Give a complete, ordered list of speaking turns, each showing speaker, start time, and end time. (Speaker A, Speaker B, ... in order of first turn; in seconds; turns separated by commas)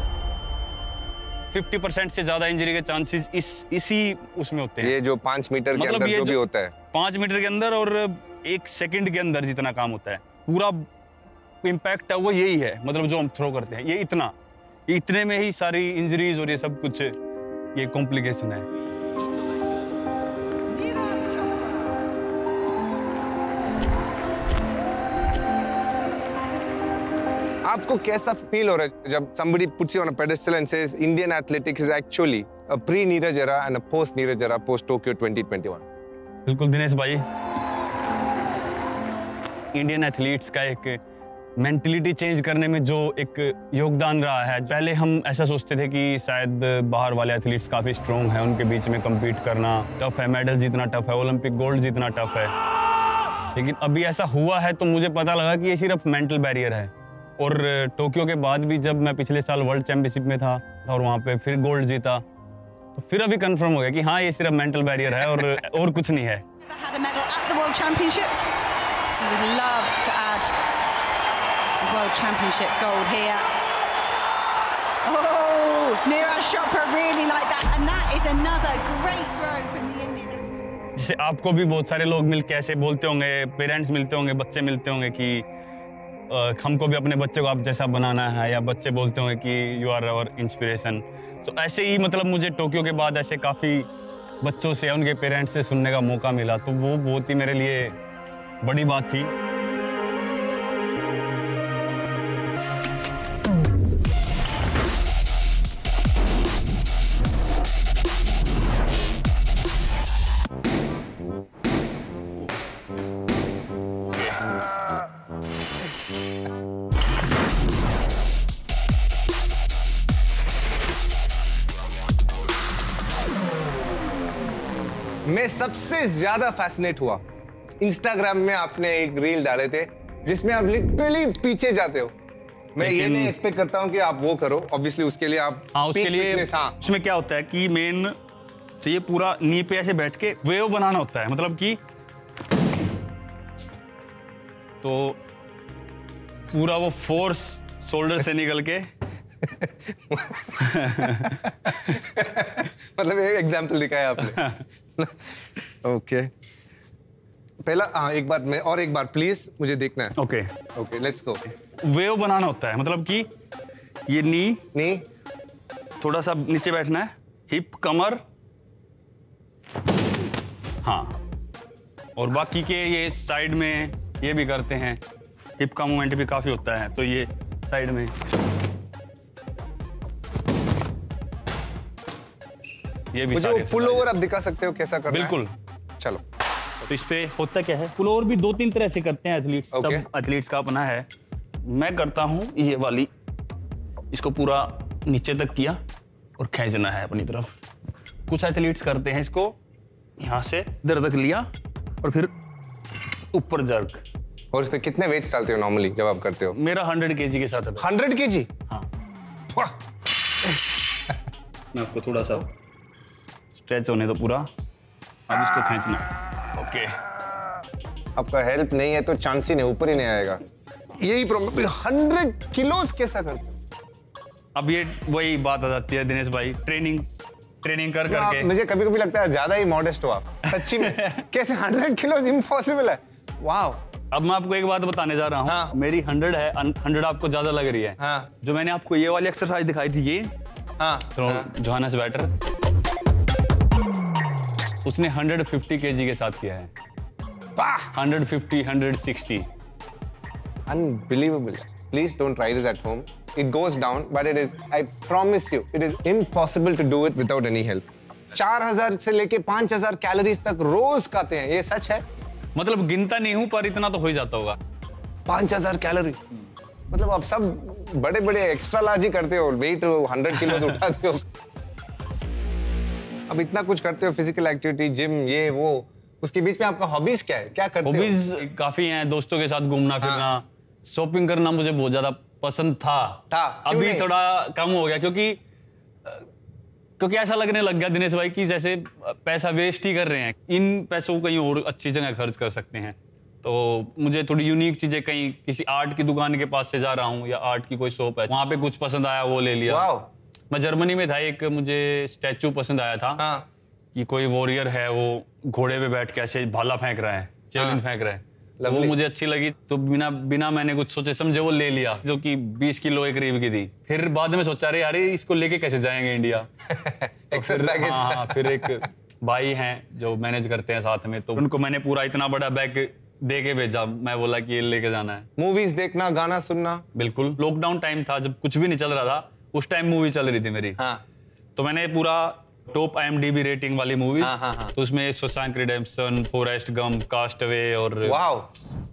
Speaker A: 1.5-5.0, Speaker B: 4.8-6.7, Speaker A: 5.8-6.4, Speaker A: 6.9-10.9, Speaker A: 11.6-14.3, Speaker A: 14.9-17.1, Speaker A: 17.7-18.6, Speaker C: 20.8-21.6, Speaker B: 27.6-35.8, Speaker A: 36.5-37.2, Speaker A: 39.7-41.0, Speaker A: 41.6-52.5, Speaker A: 53.5-62.2, Speaker A: 62.9-66.4, Speaker C: 66.6-68.5, Speaker C: 69.2-70.5, Speaker C: 71.8-73.5, Speaker C: 75.0-80.4, Speaker A: 80.9-85.5, Speaker A: 86.3-93.9, Speaker A: 94.4-98.0, Speaker A: 98.6-99.3, Speaker B: 125.2-127.2, Speaker B: 127.8-132.1, Speaker B: 132.8-136.8, Speaker A: 132.8-133.3, Speaker A: 135.7-138.1, Speaker A: 138.8-141.8, Speaker A: 144.8-145.2, Speaker A: 146.5-148.9, Speaker B: 149.4-156.3, Speaker A: 150.6-151.8, Speaker A: 154.3-154.6, Speaker B: 157.6-160.1, Speaker A: 160.2-160.6, Speaker B: 160.7-161.4, Speaker A: 161.8-163.3, Speaker A: 164.1-164.6, Speaker B: 164.7-165.0, Speaker A: 166.0-168.2, Speaker A: 170.8-171.2, Speaker A: 172.2-175.0, Speaker A: 175.6-178.1, Speaker A: 183.1-184.1, Speaker B: 183.3-185.4, Speaker A: 185.1-185.5, Speaker A: 186.9-191.1, Speaker B: 189.7-190.1, Speaker A: 191.6-193.1, Speaker A: 194.1-195.8, Speaker A: 196.4-197.5, Speaker A: 198.3-199.6, Speaker A: 200.2-201.5, Speaker A: 202.0-202.3, Speaker A: 203.3-204.0, Speaker B: 204.5-206.6, Speaker A: 206.5-207.9, Speaker B: 207.8-208.5, Speaker A: 211.7-212.5, Speaker A: 213.5-214.5, Speaker A: 215.3-217.0, Speaker B: 218.1-220.4, Speaker B: 221.0-223.6, Speaker A: 224.6-227.1, Speaker A: 227.6-228.5, Speaker B: 228.1-233.8, Speaker A: 230.5-231.2, Speaker A: 234.1-240.3, Speaker B: 235.4-235.8, Speaker B: 238.0-238.3, Speaker B: 240.8-241.5, Speaker A: 241.1-242.3, Speaker A: 244.8-246.7, Speaker B: 247.6-247.9, Speaker A: 247.9-249.5, Speaker B: 250.7-262.0, Speaker A: 262.6-264.6, Speaker B: 265.2-266.2, Speaker B: 266.9-271.2, Speaker B: 273.3-278.2, Speaker A: 277.8-285.4, Speaker B: 280.0-280.3, Speaker B: 283.3-284.1, Speaker A: 287.0-299.9, Speaker B: 299.7-300.1, Speaker A: 300.5-303.2, Speaker B: 303.2-303.5, Speaker A: 303.9-316.5, Speaker B: 307.6-307.8, Speaker B: 308.6-308.9, Speaker B: 316.7-318.8, Speaker A: 317.3-325.3, Speaker B: 325.4-326.8, Speaker A: 326.9-330.8, Speaker A: 331.6-338.2, Speaker B: 334.2-334.7, Speaker B: 338.0-338.5